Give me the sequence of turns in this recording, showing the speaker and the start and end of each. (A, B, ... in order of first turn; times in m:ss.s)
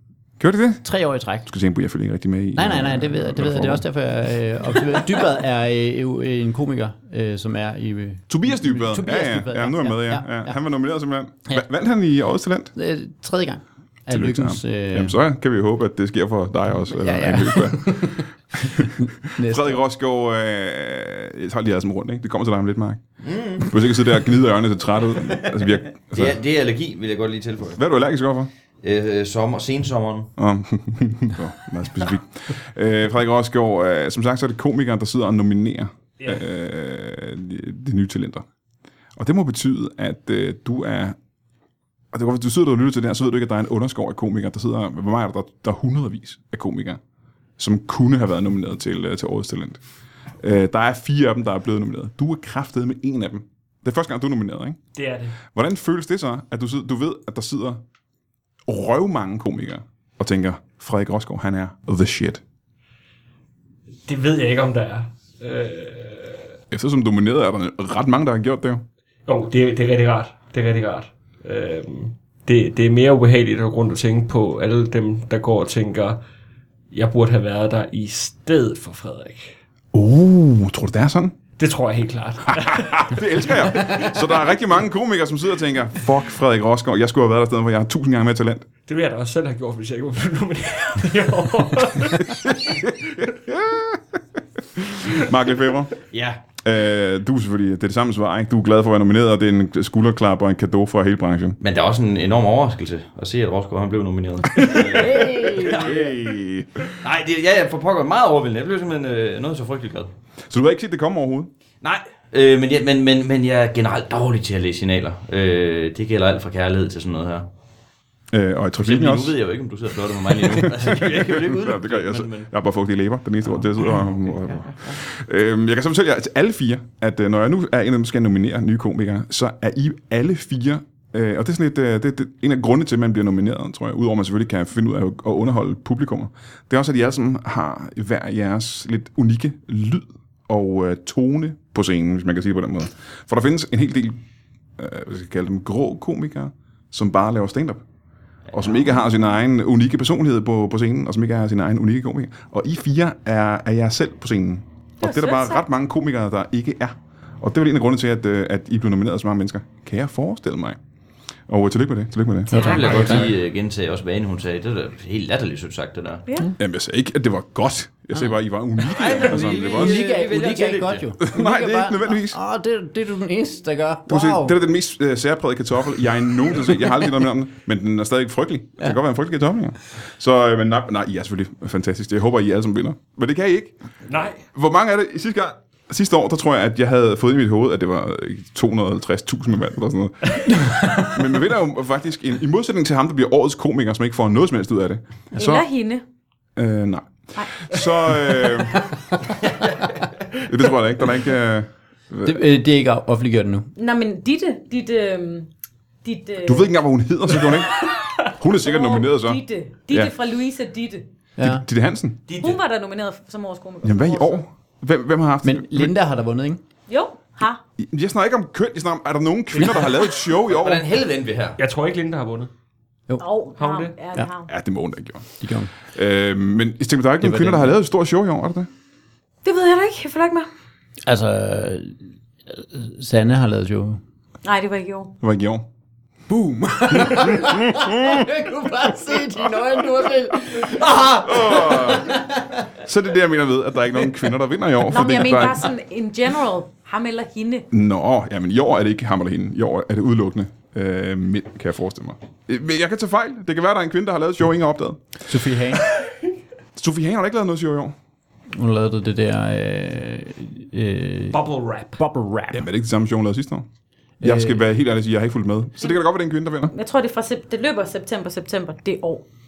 0:00.4-0:00.8 A
0:00.8-0:01.5 B
0:01.5-0:03.8 A
0:02.5-0:10.6 B
0:08.3-0:12.7 A
0:12.7-0:15.2 B
0:14.1-0:23.0 A
0:16.9-0:19.8 B
0:23.2-0:23.7 C
0:23.6-0:26.4 A
0:26.1-0:27.8 C
0:27.8-0:28.5 A
0:28.8-0:30.3 C
0:30.4-0:38.4 A
0:39.2-0:41.2 A
0:42.1-0:47.0 A
0:47.6-0:49.8 A
0:50.4-0:54.8 A
0:54.9-0:55.4 D
0:55.5-0:57.8 A
0:58.7-1:02.4 A
1:04.0-1:06.5 D
1:06.7-1:08.8 A
1:09.2-1:16.2 D
1:16.9-1:19.6 D
1:19.9-1:21.3 A
1:21.6-1:24.2 D
1:22.5-1:28.7 A
1:28.9-1:32.9 D
1:32.3-1:34.0 A
1:34.7-1:35.9 A
1:36.1-1:36.4 C
1:36.6-1:41.6 A
1:41.6-1:46.1 C
1:44.7-1:46.1 B
1:45.5-1:47.0 A
1:47.0-1:50.1 C
1:50.5-1:51.5 A
1:51.8-1:57.5 C
1:58.3-1:59.3 A
1:58.8-2:02.5 C
2:00.4-2:24.2 A
2:03.4-2:05.0 C
2:24.8-2:27.8 A
2:28.5-2:29.0 C
2:28.5-2:40.8 A
2:35.0-2:35.6 E
2:41.5-2:43.3 A
2:42.5-2:43.3 B
2:42.5-2:46.3 C
2:46.3-2:46.5 E
2:46.6-2:50.0 A
2:48.9-2:51.1 C
2:49.2-2:54.6 B
2:51.2-2:52.4 A
2:54.1-3:03.8 A
3:04.1-3:04.4 D
3:04.4-3:15.6 A
3:15.3-3:16.0 E
3:16.6-3:18.8 A
3:17.4-3:17.7 E
3:20.3-3:22.4 A
3:22.2-3:23.7 B
3:23.8-3:25.5 E
3:26.0-3:26.7 E
3:26.4-3:30.1 A
3:28.5-3:31.1 E
3:31.4-3:31.6 B
3:31.4-3:32.2 A
3:32.3-3:32.6 C
3:32.4-3:34.4 E
3:33.8-3:35.9 A
3:35.4-3:36.6 B
3:36.9-3:37.6 E
3:37.8-3:40.9 A
3:39.6-3:39.8 D
3:40.5-3:41.6 C
3:41.6-3:42.5 D
3:43.2-3:44.5 E
3:43.6-3:43.9 D
3:44.4-3:48.7 A
3:45.4-3:45.7 B
3:47.2-3:47.8 B
3:49.4-3:50.5 E
3:51.0-3:54.0 B
3:54.4-3:55.1 E
3:55.2-3:55.6 A
3:56.3-4:02.7 B
3:57.0-3:58.2 A
4:01.1-4:02.2 A
4:02.7-4:05.7 A
4:04.8-4:07.7 E
4:07.7-4:15.2 A
4:15.2-4:15.8 B
4:16.8-4:17.9 A
4:18.5-4:21.4 B
4:21.3-4:22.0 D
4:22.0-4:22.7 B
4:22.5-4:23.6 A
4:24.2-4:24.7 B
4:24.2-4:26.7 A
4:26.7-4:29.2 E